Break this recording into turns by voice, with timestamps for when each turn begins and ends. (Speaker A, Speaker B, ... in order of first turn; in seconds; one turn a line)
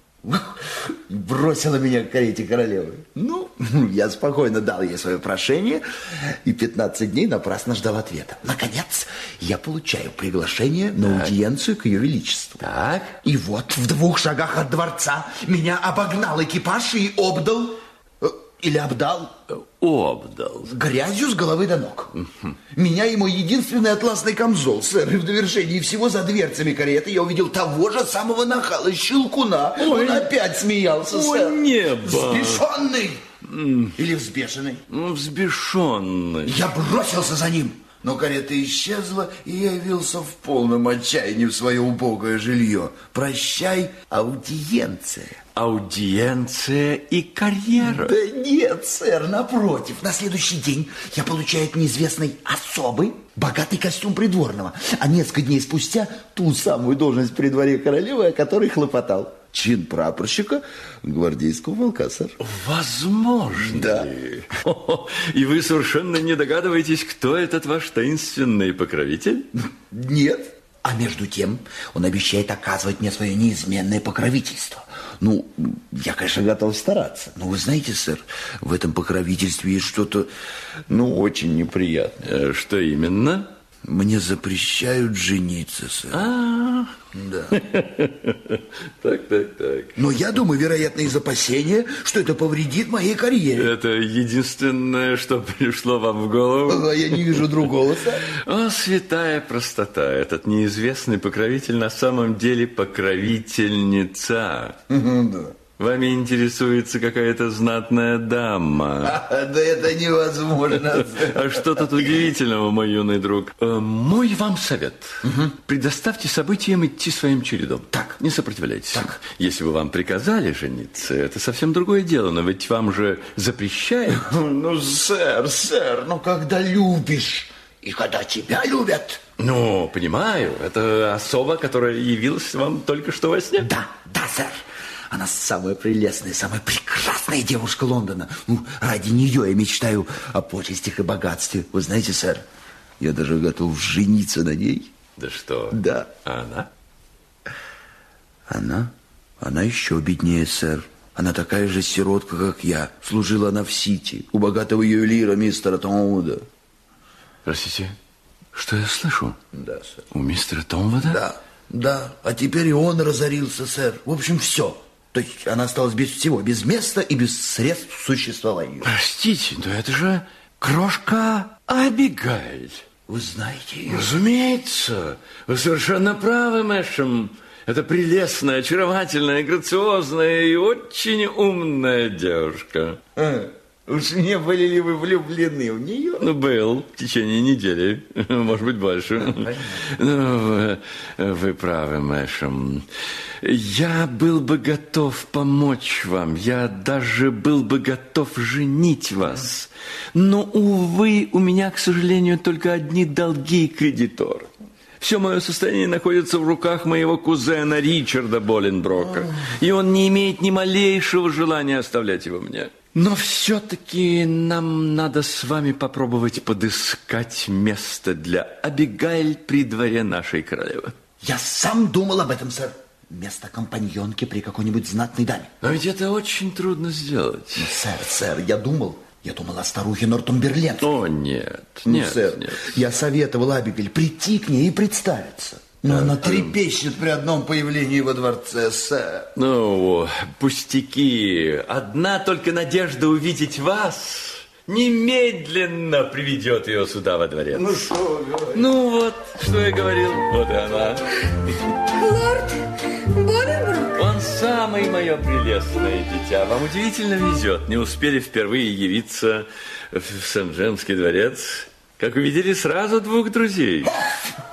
Speaker A: 0.2-12.7
Speaker B: 11.0-11.3
Speaker B: 12.6-13.2
Speaker A: 13.2-19.4
Speaker B: 19.5-20.8
Speaker A: 20.7-22.1
Speaker B: 22.2-22.6
Speaker A: 22.7-33.3
Speaker B: 29.8-30.3
Speaker B: 31.1-32.6
Speaker B: 33.5-34.0
Speaker A: 34.0-34.8
Speaker B: 34.9-36.6
Speaker A: 36.5-45.4
Speaker B: 45.6-48.2
Speaker A: 47.8-62.4
Speaker B: 62.4-69.5
Speaker A: 63.6-64.1
Speaker A: 69.6-80.3
Speaker A: 80.9-81.7
Speaker B: 80.9-83.5
Speaker A: 83.8-86.3
Speaker B: 86.1-87.0
Speaker A: 87.1-87.6
Speaker B: 87.5-90.0
Speaker A: 90.0-93.7
Speaker B: 93.6-97.5
Speaker A: 96.7-98.3
Speaker B: 98.3-104.8
Speaker A: 104.9-105.6
Speaker B: 105.8-109.2
Speaker A: 109.0-112.0
Speaker B: 110.9-124.4
Speaker A: 115.2-115.5
Speaker A: 117.9-118.2
Speaker A: 124.2-129.2
Speaker B: 124.9-125.8
Speaker B: 129.4-133.7
Speaker A: 133.6-142.4
Speaker A: 143.0-144.9
Speaker B: 145.2-146.7
Speaker A: 145.7-146.1
Speaker A: 148.5-156.5
Speaker B: 157.4-158.0
Speaker B: 158.5-159.4
Speaker A: 159.5-160.0
Speaker B: 160.1-161.2
Speaker A: 161.0-168.9
Speaker B: 168.8-172.8
Speaker A: 173.1-174.1
Speaker B: 173.9-183.0
Speaker A: 183.2-186.3
Speaker B: 186.2-192.9
Speaker A: 189.2-189.8
Speaker B: 193.4-204.5
Speaker B: 205.0-221.0
Speaker A: 221.2-225.5
Speaker B: 225.6-227.8
Speaker A: 227.6-230.9
Speaker B: 230.8-232.8
Speaker A: 231.8-239.3
Speaker B: 235.8-236.6
Speaker B: 239.4-247.8
Speaker A: 247.5-248.7
Speaker B: 248.5-251.6
Speaker C: 252.0-253.9
Speaker B: 253.9-264.1